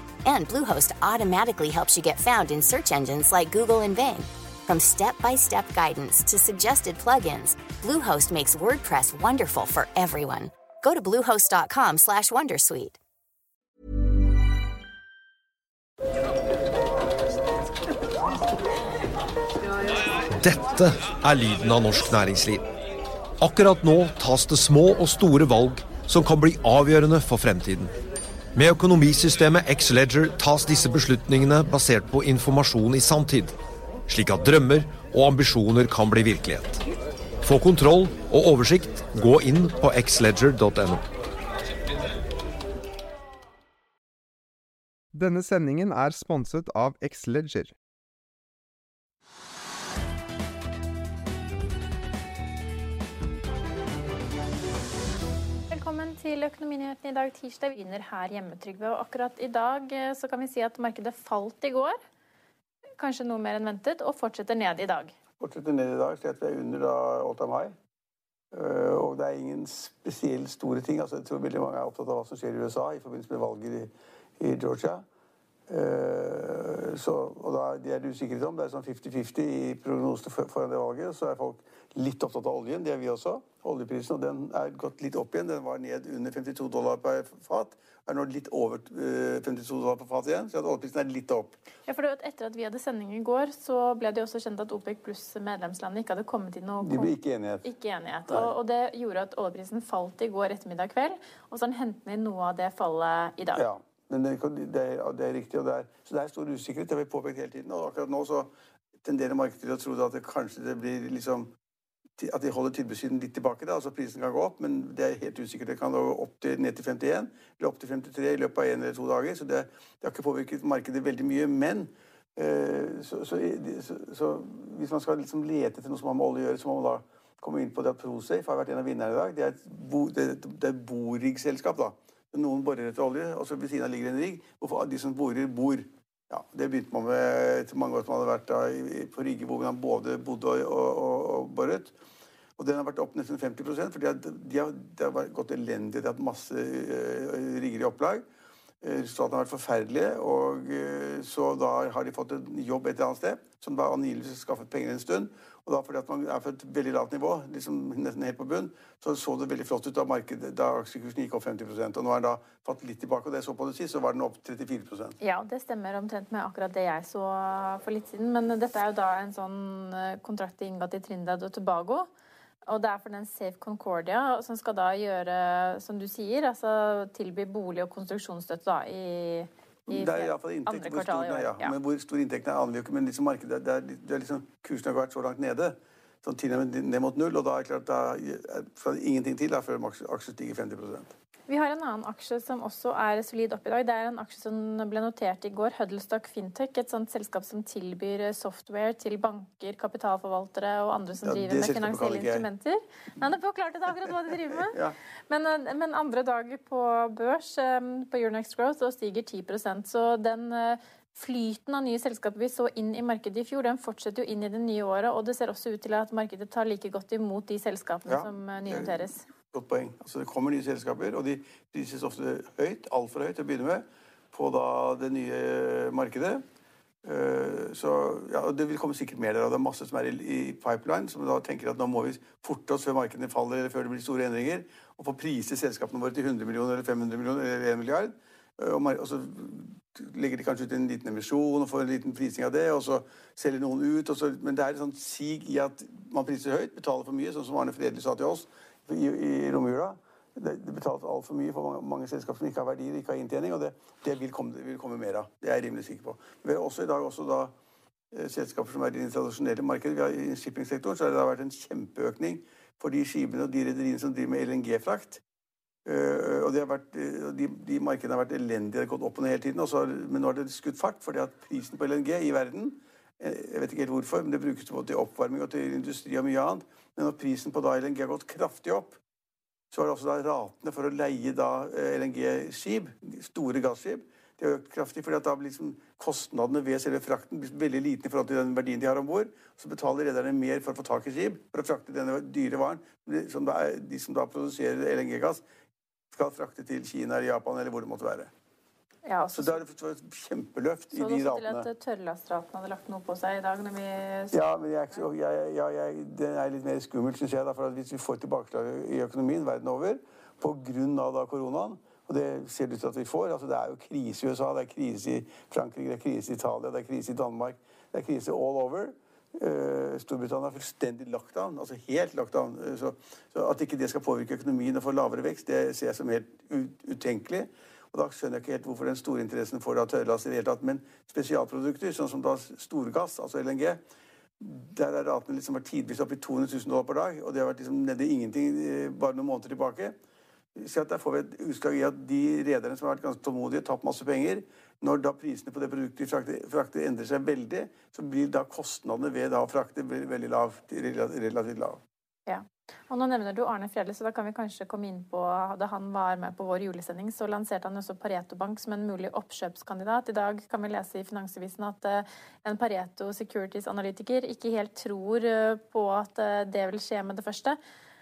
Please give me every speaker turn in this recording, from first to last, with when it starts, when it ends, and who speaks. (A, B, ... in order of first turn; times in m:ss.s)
0:00.2-0:13.0 A
0:20.3-0:22.6 B
0:23.4-0:27.9 B
0:28.6-0:33.5 B
0:34.1-0:36.8 B
0:37.4-0:41.0 B
0:45.1-0:47.7 C
0:55.7-1:02.0 D
1:03.0-1:05.1 D
1:05.4-1:07.7 E
1:08.5-1:15.0 E
1:15.7-1:31.6 E
1:31.9-1:43.6 D
1:36.8-1:37.6 E
1:38.3-1:38.5 E
1:43.5-1:48.5 E
1:49.0-1:51.5 E
1:52.2-2:21.9 E
2:22.6-2:28.2 E
2:28.8-2:45.2 E
2:45.2-2:52.1 D
2:52.7-3:01.7 D
2:59.9-3:11.1 E
3:11.5-3:24.8 D
3:21.2-3:22.5 E
3:24.7-3:25.0 E
3:25.3-3:39.2 D
3:38.0-3:46.4 E
3:47.0-4:17.5 E
4:18.1-4:25.2 E
4:25.8-4:39.0 E
4:39.7-4:55.4 E
4:56.1-4:58.3 E
4:59.0-4:59.6 D
4:59.3-5:01.7 E
5:00.9-5:05.0 D
5:04.3-5:33.8 E
5:34.4-5:39.9 E
5:40.6-5:51.8 E
5:52.2-6:07.6 D